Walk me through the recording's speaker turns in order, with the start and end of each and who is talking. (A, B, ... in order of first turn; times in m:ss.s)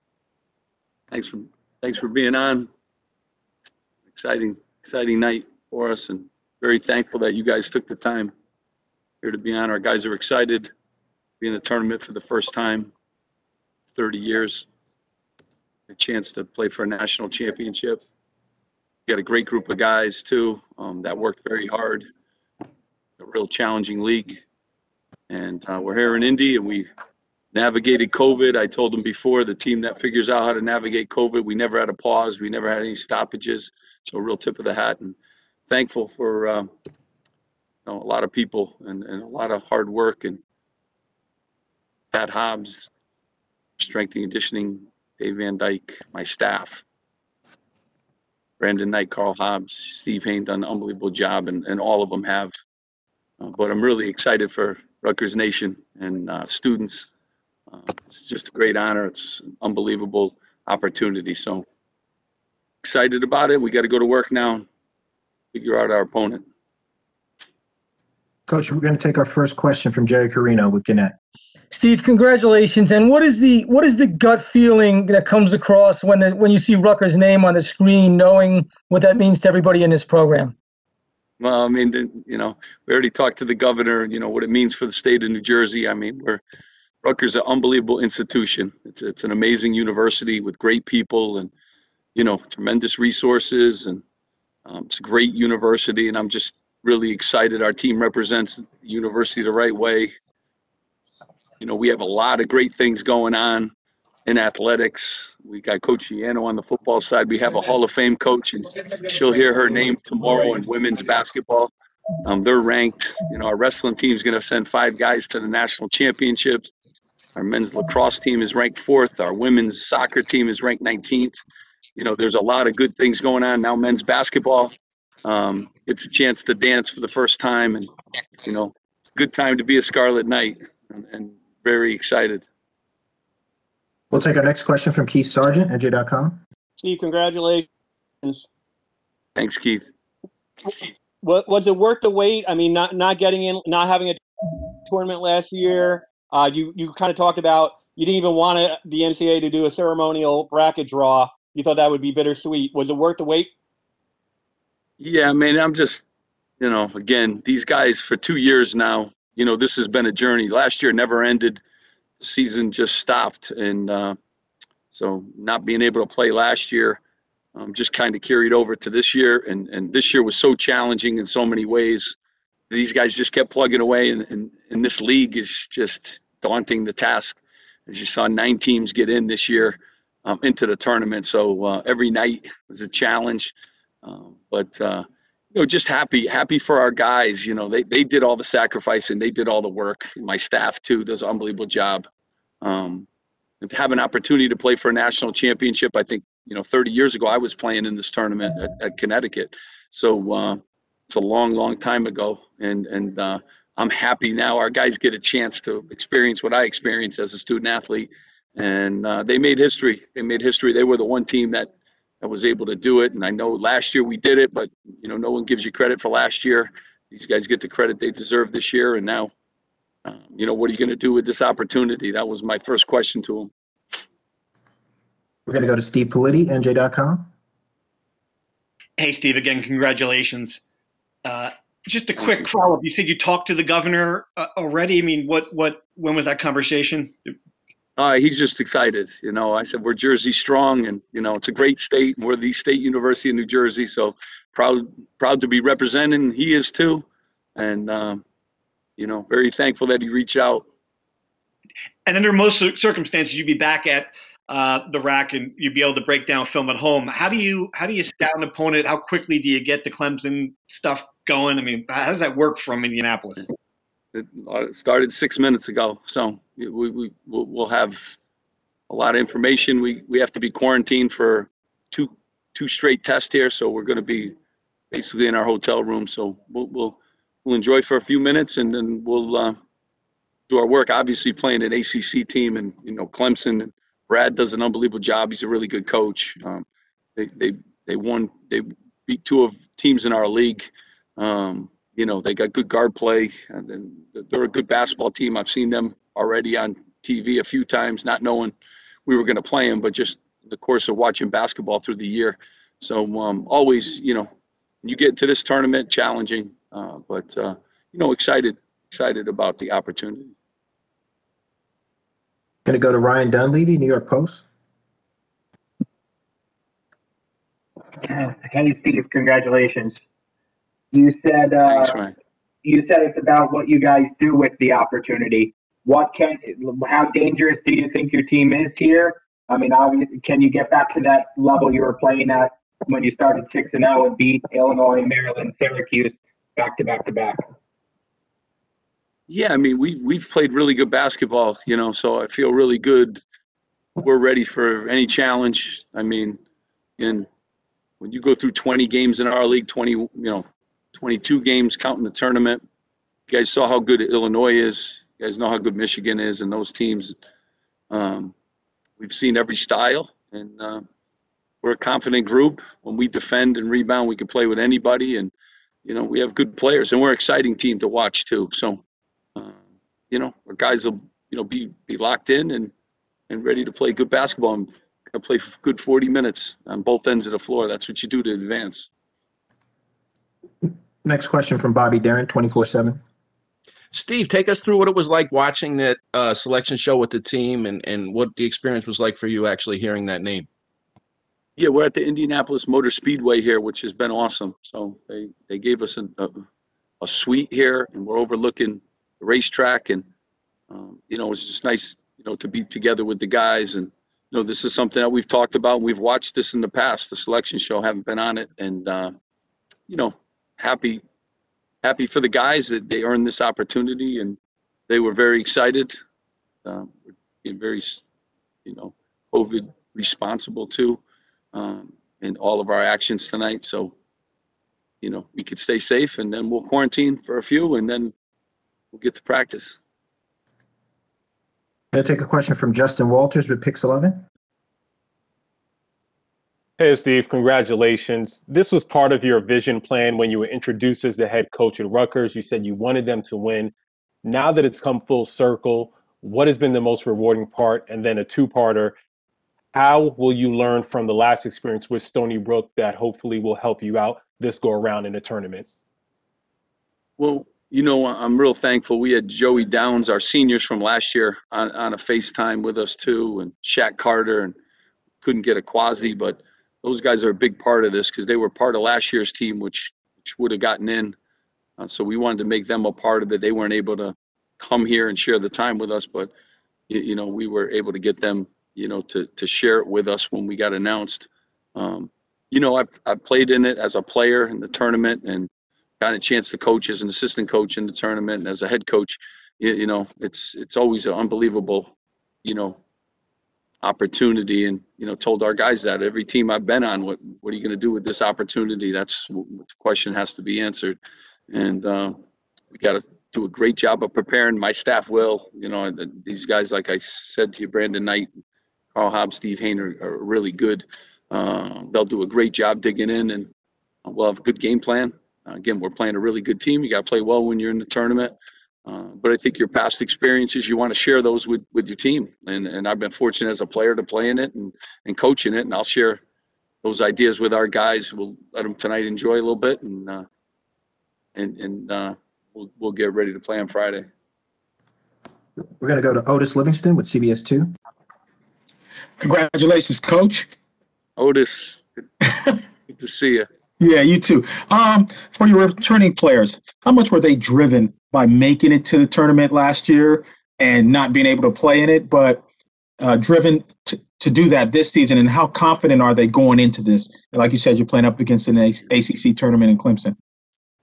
0:01.1-0:02.7 A
0:04.1-0:08.3 A
0:09.2-0:10.7 A
0:11.4-0:12.9 A
0:13.9-0:14.7 A
0:15.9-0:18.0 A
0:19.1-0:22.0 A
0:23.2-0:24.4 A
0:25.3-0:26.9 A
0:27.5-0:35.2 A
0:35.7-0:36.7 A
0:37.9-0:40.4 A
0:42.1-0:42.9 A
0:43.8-0:46.8 A
0:48.6-0:52.5 A
0:53.4-0:57.1 A
0:57.7-1:01.6 A
1:02.8-1:04.7 A
1:05.5-1:06.4 A
1:08.5-1:11.2 B
1:11.7-1:20.5 C
1:21.4-1:26.4 A
1:27.0-1:31.5 A
1:32.1-1:34.0 A
1:34.7-1:40.1 A
1:41.6-1:43.7 A
1:44.2-1:51.7 A
1:52.2-1:56.7 A
1:57.4-2:01.4 A
2:02.0-2:04.7 A
2:05.2-2:07.9 A
2:08.4-2:12.4 A
2:14.1-2:16.4 B
2:16.8-2:17.5 D
2:17.4-2:17.7 E
2:19.4-2:19.9 A
2:21.2-2:24.1 D
2:23.7-2:24.2 E
2:24.9-2:30.6 D
2:24.9-2:33.5 E
2:31.4-2:33.4 D
2:35.0-2:36.0 A
2:36.6-2:41.6 A
2:42.2-2:44.2 A
2:44.9-2:47.0 A
2:47.5-2:52.2 A
2:52.7-3:12.0 A
3:12.6-3:13.1 A
3:13.6-3:39.3 A
3:40.0-3:43.5 A
3:45.5-3:47.2 B
3:49.0-3:50.6 E
3:51.2-3:57.3 E
3:58.0-4:07.0 A
4:07.6-4:08.2 A
4:09.0-4:10.6 A
4:12.1-4:23.5 E
4:24.1-4:28.2 A
4:28.9-4:34.3 A
4:34.9-4:39.6 A
4:40.5-4:58.5 A
4:59.1-5:04.3 A
5:04.8-5:10.3 A
5:12.6-5:14.4 B
5:18.0-5:20.0 F
5:20.9-5:22.0 F
5:21.7-5:22.1 A
5:22.6-5:37.4 F
5:39.3-5:43.2 A
5:44.0-5:46.4 A
5:47.0-5:47.3 A
5:48.0-5:52.6 A
5:53.3-5:57.2 A
5:57.9-5:58.3 A
5:59.0-6:00.8 A
6:01.6-6:05.3 A
6:05.8-6:08.8 A
6:09.4-6:12.7 A
6:13.3-6:18.9 A
6:20.6-6:23.0 B
6:23.9-6:30.5 G
6:31.6-6:36.3 A
6:37.0-6:40.0 A
6:40.7-6:49.1 A
6:49.9-6:51.0 A
6:51.8-6:54.4 A
6:54.9-6:55.9 A
6:56.6-6:58.0 A
6:58.6-7:01.0 A
7:01.5-7:03.9 A
7:05.0-7:08.1 A
7:08.9-7:09.8 A
7:11.9-7:14.2 B
7:16.8-7:23.7 H
7:24.2-7:28.9 H
7:29.7-7:35.7 H
7:37.2-7:44.5 A
7:45.2-7:51.2 A
7:51.8-7:56.3 A
7:56.9-8:11.9 A
8:12.4-8:12.8 A
8:13.8-8:21.0 A
8:21.5-8:22.2 A
8:22.7-8:28.3 A
8:28.9-8:33.5 A
8:34.0-8:38.3 A
8:38.8-8:46.2 A
8:46.8-8:50.2 A
8:51.3-8:54.0 A
8:55.8-8:57.7 B
8:59.2-9:00.5 I
9:01.2-9:02.0 A
9:02.9-9:03.5 A
9:03.8-9:12.4 I
9:13.0-9:20.1 I